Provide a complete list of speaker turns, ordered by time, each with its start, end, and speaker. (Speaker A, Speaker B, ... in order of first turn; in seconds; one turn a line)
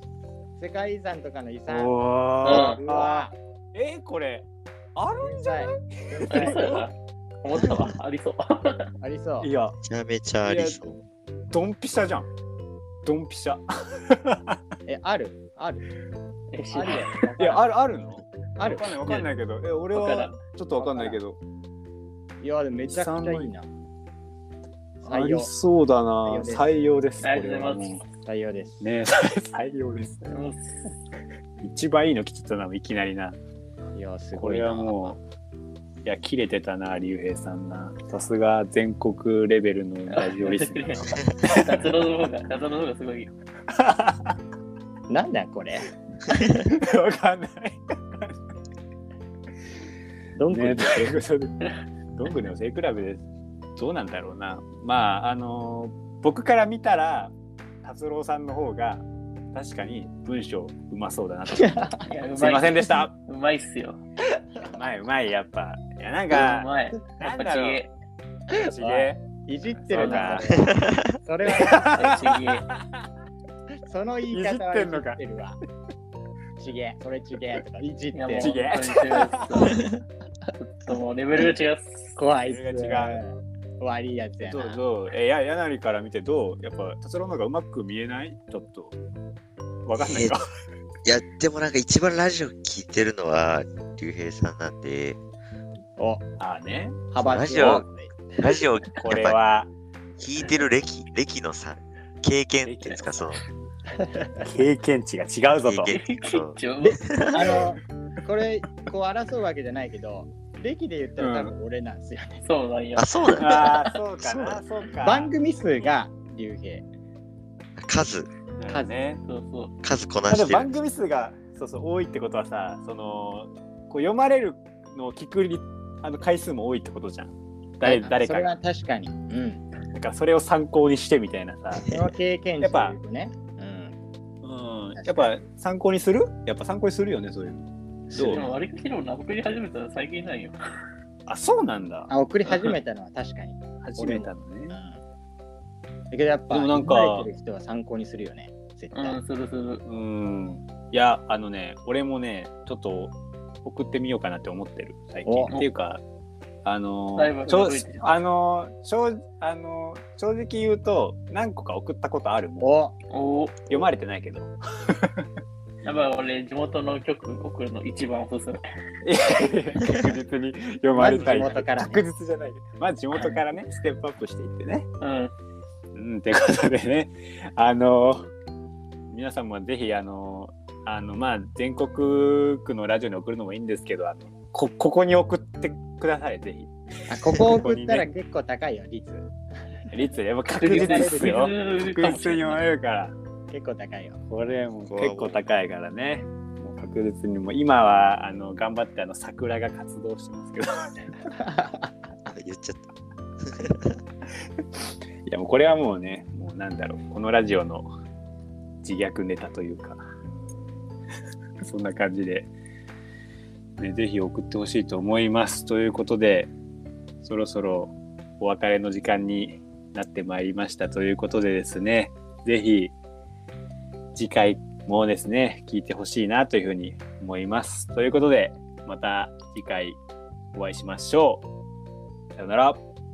Speaker A: 0.6-3.4
Speaker B: 1.7-6.8
Speaker C: 2.5-2.8
Speaker A: 5.2-6.8
Speaker C: 6.3-8.9
Speaker A: 9.0-9.5
Speaker B: 9.4-9.8
Speaker D: 9.8-10.9
Speaker B: 10.4-10.9
Speaker B: 11.5-12.3
Speaker B: 13.0-14.6
Speaker A: 14.9-15.8
Speaker C: 16.5-17.6
Speaker A: 16.7-17.3
Speaker B: 17.4-21.4
Speaker A: 18.6-19.0
Speaker C: 19.9-20.3
Speaker A: 20.8-21.2
Speaker A: 22.4-23.7
Speaker B: 22.9-23.5
Speaker A: 25.0-25.5
Speaker B: 25.0-28.0
Speaker A: 26.2-26.7
Speaker C: 27.2-28.0
Speaker A: 28.2-28.9
Speaker B: 28.8-30.2
Speaker C: 30.2-30.7
Speaker B: 31.6-33.4
Speaker A: 34.0-35.2
Speaker B: 34.4-35.2
Speaker B: 36.0-41.9
Speaker C: 40.1-43.3
Speaker B: 43.7-44.4
Speaker A: 45.1-46.7
Speaker B: 46.6-48.4
Speaker A: 50.4-51.1
Speaker B: 50.5-51.6
Speaker B: 52.1-53.2
Speaker B: 53.8-63.1
Speaker A: 61.6-62.1
Speaker C: 62.1-64.0
Speaker A: 64.4-64.7
Speaker B: 64.6-66.7
Speaker C: 66.3-67.9
Speaker B: 67.2-67.8
Speaker B: 68.5-69.2
Speaker A: 68.5-72.2
Speaker B: 69.8-70.5
Speaker C: 69.9-70.5
Speaker D: 70.7-71.1
Speaker B: 71.5-73.1
Speaker C: 71.8-72.7
Speaker A: 73.9-75.6
Speaker B: 74.3-75.2
Speaker A: 76.6-78.5
Speaker C: 78.1-79.9
Speaker B: 78.4-79.7
Speaker C: 80.6-82.2
Speaker A: 82.2-84.8
Speaker B: 82.5-83.2
Speaker B: 84.5-89.0
Speaker B: 89.9-90.5
Speaker D: 90.0-90.4
Speaker D: 91.0-95.2
Speaker A: 96.0-96.2
Speaker B: 96.4-97.0
Speaker A: 97.1-98.5
Speaker D: 97.2-97.9
Speaker D: 98.4-99.4
Speaker B: 99.0-99.7
Speaker D: 100.2-103.4
Speaker B: 100.4-100.6
Speaker B: 102.7-103.0
Speaker A: 104.0-104.5
Speaker B: 104.4-106.0
Speaker D: 105.7-107.6
Speaker C: 105.9-107.7
Speaker A: 106.8-112.4
Speaker B: 111.2-111.5
Speaker C: 112.5-114.0
Speaker D: 113.0-113.8
Speaker B: 113.4-115.3
Speaker A: 115.0-116.9
Speaker D: 117.8-118.3
Speaker B: 118.6-119.2
Speaker A: 118.7-118.9
Speaker C: 119.2-119.7
Speaker D: 119.8-120.7
Speaker B: 120.3-128.5
Speaker A: 127.8-129.6
Speaker B: 129.9-132.1
Speaker A: 131.8-134.0
Speaker B: 132.6-133.0
Speaker B: 134.4-138.4
Speaker A: 135.0-135.3
Speaker A: 138.1-138.5
Speaker C: 138.3-140.6
Speaker B: 141.3-142.7
Speaker A: 142.1-145.0
Speaker B: 143.8-144.8
Speaker A: 146.1-149.2
Speaker B: 146.5-147.3
Speaker C: 148.9-149.8
Speaker B: 149.9-156.0
Speaker A: 155.2-155.5
Speaker B: 156.6-162.7
Speaker C: 157.2-158.0
Speaker A: 162.6-163.0
Speaker C: 163.1-163.7
Speaker B: 163.7-165.2
Speaker C: 165.8-168.6
Speaker B: 169.0-174.9
Speaker C: 169.3-170.1
Speaker A: 171.0-172.0
Speaker C: 171.0-171.7
Speaker C: 173.2-173.4
Speaker C: 175.0-175.3
Speaker B: 175.9-178.3
Speaker B: 179.1-186.7
Speaker A: 187.1-189.3
Speaker B: 187.3-188.1
Speaker B: 189.9-193.2
Speaker C: 190.6-192.6
Speaker A: 190.6-191.5
Speaker A: 193.5-194.2
Speaker B: 194.3-201.1
Speaker D: 194.9-195.4
Speaker A: 201.4-201.9
Speaker D: 202.3-202.8
Speaker D: 203.4-204.0
Speaker B: 205.2-207.9
Speaker B: 208.8-210.1
Speaker B: 211.6-212.5
Speaker B: 213.8-216.5
Speaker B: 217.2-222.9
Speaker B: 224.2-230.0
Speaker B: 230.5-231.4
Speaker B: 232.4-232.8